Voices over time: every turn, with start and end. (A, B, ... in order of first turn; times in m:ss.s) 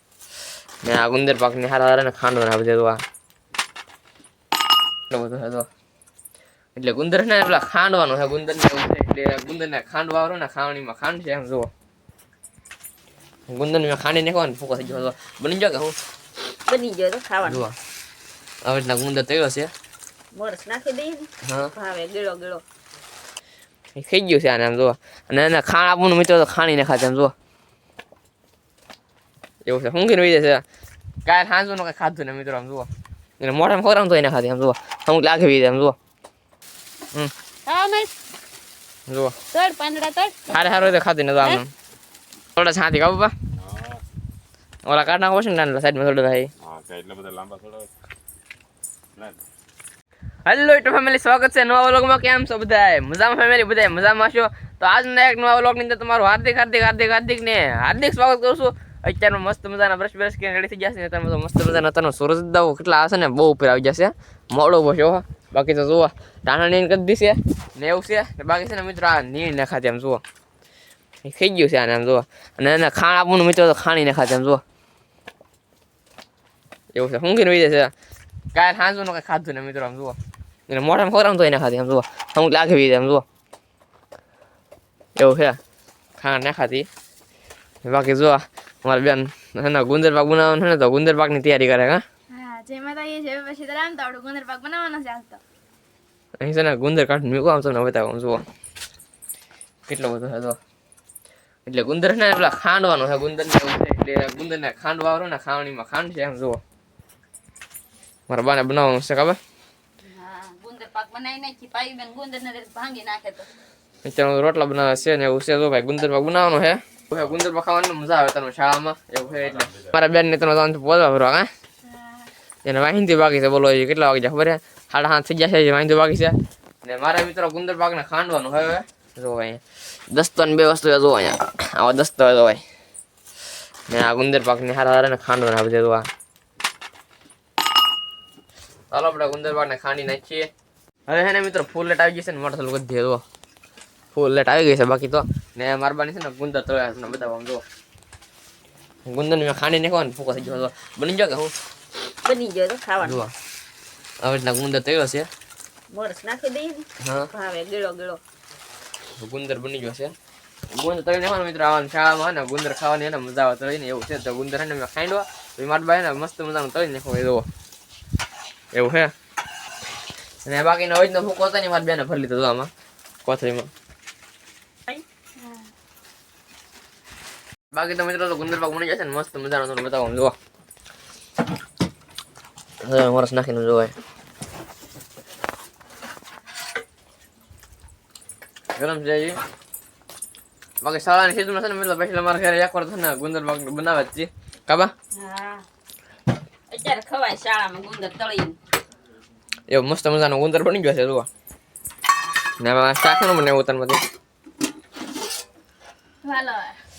0:00.8-0:03.0 A
0:05.1-0:05.7 A
0:06.8-0:11.7 A
0:13.5-0:15.9 A
0:16.7-0:17.6 B
0:17.4-0:17.7 A
0:18.6-0:19.7 A
0:20.3-0:22.6 B
0:21.4-0:21.7 A
0:23.9-0:27.3 A
0:29.6-0:30.6 A
0:31.2-0:32.9 A
0:33.4-0:36.0 A
0:37.6-0:38.1 B
0:39.1-0:39.3 A
0:39.5-0:40.5 B
0:40.5-0:41.7 A
0:42.6-0:43.3 A
0:43.6-0:44.0 C
0:44.8-0:46.5 A
0:46.6-0:47.9 C
0:49.2-0:49.4 C
0:50.4-1:10.2 A
1:11.2-1:14.6 A
1:16.9-1:17.9 A
1:18.5-1:20.2 A
1:20.7-1:23.2 A
1:25.2-1:25.6 A
1:26.2-1:26.9 A
1:27.8-1:32.0 A
1:32.3-1:35.4 D
1:36.4-1:38.4 A
1:39.9-1:40.6 A
1:41.6-1:46.6 A
1:48.3-1:49.4 A
1:50.0-1:53.5 B
1:54.0-2:01.5 A
2:02.6-2:12.6 A
2:13.9-2:16.1 A
2:18.9-2:20.5 A
2:21.1-2:23.2 A
2:24.1-2:27.6 A
2:29.1-2:31.5 A
2:32.2-2:33.1 B
2:33.0-2:33.3 A
2:34.2-2:35.3 A
2:35.9-2:38.2 B
2:37.0-2:37.3 A
2:39.2-2:40.1 A
2:40.7-2:47.4 A
2:48.7-2:49.1 A
2:50.4-2:52.7 A
2:53.2-2:53.7 A
2:57.7-3:00.3 A
3:02.8-3:03.9 A
3:08.8-3:09.4 A
3:10.8-3:14.9 A
3:15.1-3:15.6 B
3:16.7-3:18.6 B
3:19.7-3:21.3 A
3:22.6-3:24.0 A
3:26.2-3:26.8 D